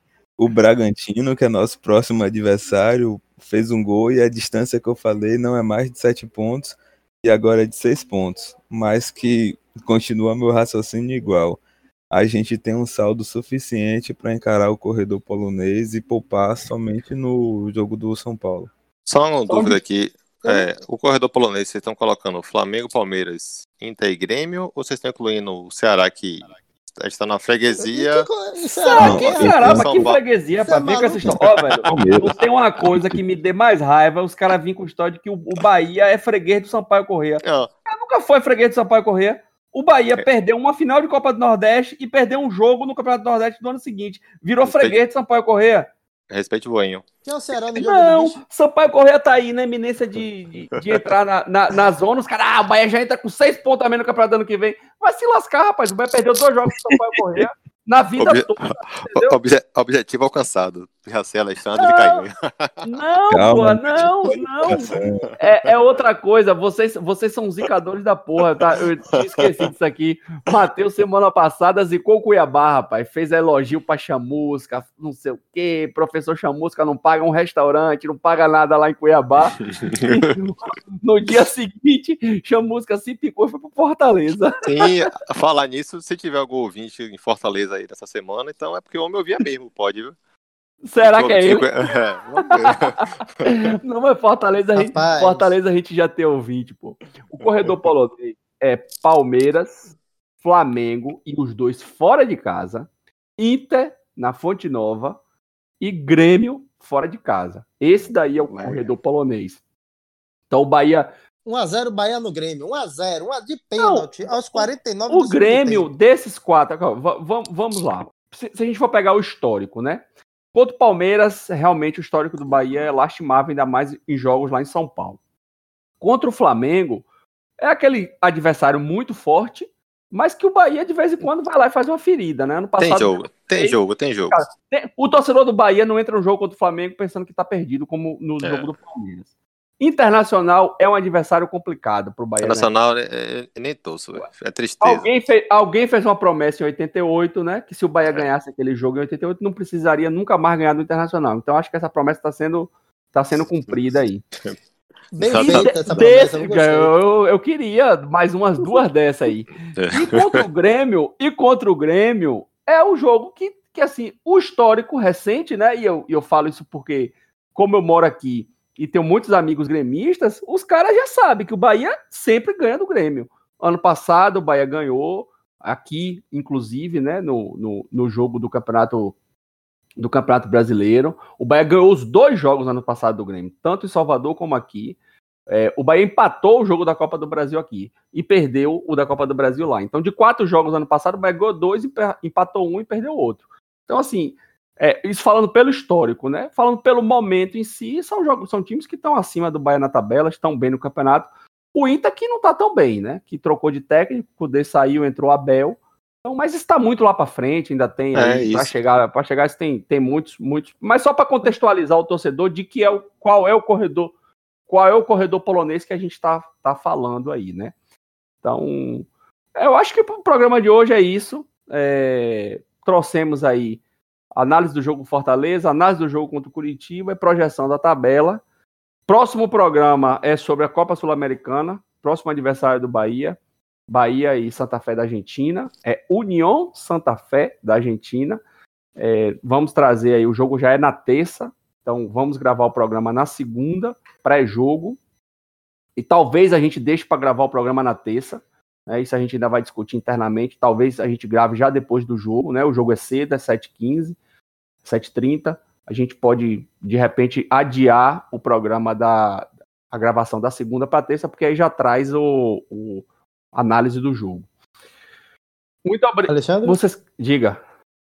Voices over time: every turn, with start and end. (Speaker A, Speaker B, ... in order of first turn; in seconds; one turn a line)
Speaker A: 0.4-11.6
Speaker A: 12.1-18.7
Speaker B: 19.0-30.2
Speaker C: 19.5-19.8
Speaker D: 27.8-29.6
Speaker C: 28.8-45.9
Speaker A: 29.0-29.8
Speaker D: 30.6-31.4
Speaker B: 31.2-31.6
Speaker A: 31.8-33.2
Speaker B: 37.4-37.7
Speaker B: 44.6-45.0
Speaker B: 46.3-47.0
Speaker D: 47.2-48.4
Speaker C: 47.7-59.4
Speaker B: 58.2-62.9
Speaker C: 61.8-62.2
Speaker C: 62.8-85.0
Speaker A: 63.3-65.3
Speaker B: 68.8-69.5
Speaker B: 79.6-80.3
Speaker B: 84.6-90.1
Speaker C: 90.8-91.7
Speaker B: 91.0-93.5
Speaker C: 92.4-99.8
Speaker D: 94.8-95.5
Speaker B: 97.4-97.7
Speaker C: 100.4-105.2
Speaker C: 105.8-109.6
Speaker C: 110.5-111.1
Speaker D: 111.5-115.9
Speaker C: 113.8-120.0
Speaker C: 120.5-125.2
Speaker C: 126.0-127.0
Speaker C: 127.6-133.8
Speaker B: 132.8-134.4
Speaker C: 134.3-139.3
Speaker B: 138.4-138.7
Speaker C: 139.8-142.7
Speaker B: 142.4-145.1
Speaker C: 144.8-154.2
Speaker B: 153.7-154.6
Speaker D: 155.1-156.9
Speaker B: 155.2-156.1
Speaker C: 155.3-179.1
Speaker B: 159.8-160.4
Speaker C: 180.0-185.0
Speaker C: 185.5-214.1
Speaker B: 208.1-208.7
Speaker C: 214.7-217.7
Speaker C: 218.4-223.8
Speaker C: 224.3-228.4
Speaker C: 229.1-233.4
Speaker C: 233.9-238.4
Speaker C: 239.0-245.0
Speaker C: 246.0-254.2
Speaker C: 254.8-264.5
Speaker C: 265.9-267.6
Speaker D: 266.3-266.8